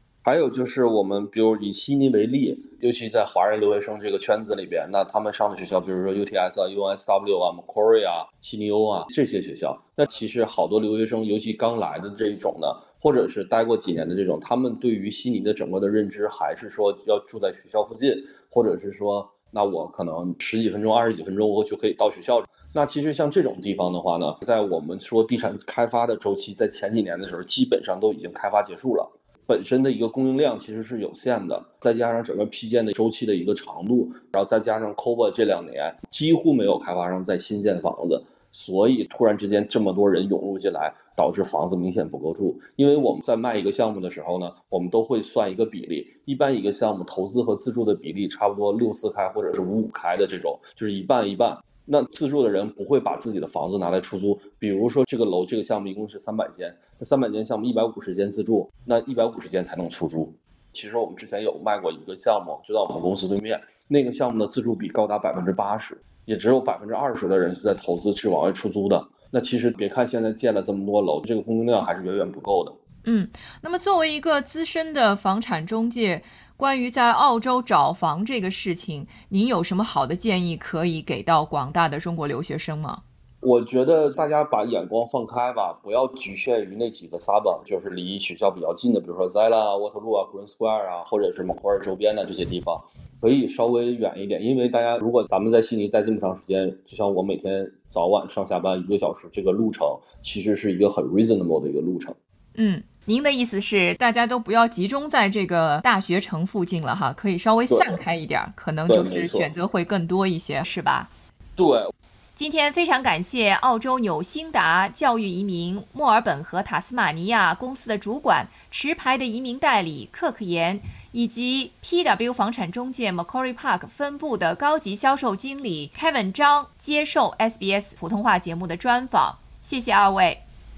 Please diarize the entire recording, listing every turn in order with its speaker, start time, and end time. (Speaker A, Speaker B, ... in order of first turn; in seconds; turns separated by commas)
Speaker A: 0.2-72.8, Speaker B: 73.0-83.0, Speaker A: 83.4-102.2, Speaker B: 102.5-111.1, Speaker A: 107.7-108.0, Speaker A: 108.9-109.5, Speaker A: 111.6-111.9, Speaker B: 112.3-130.4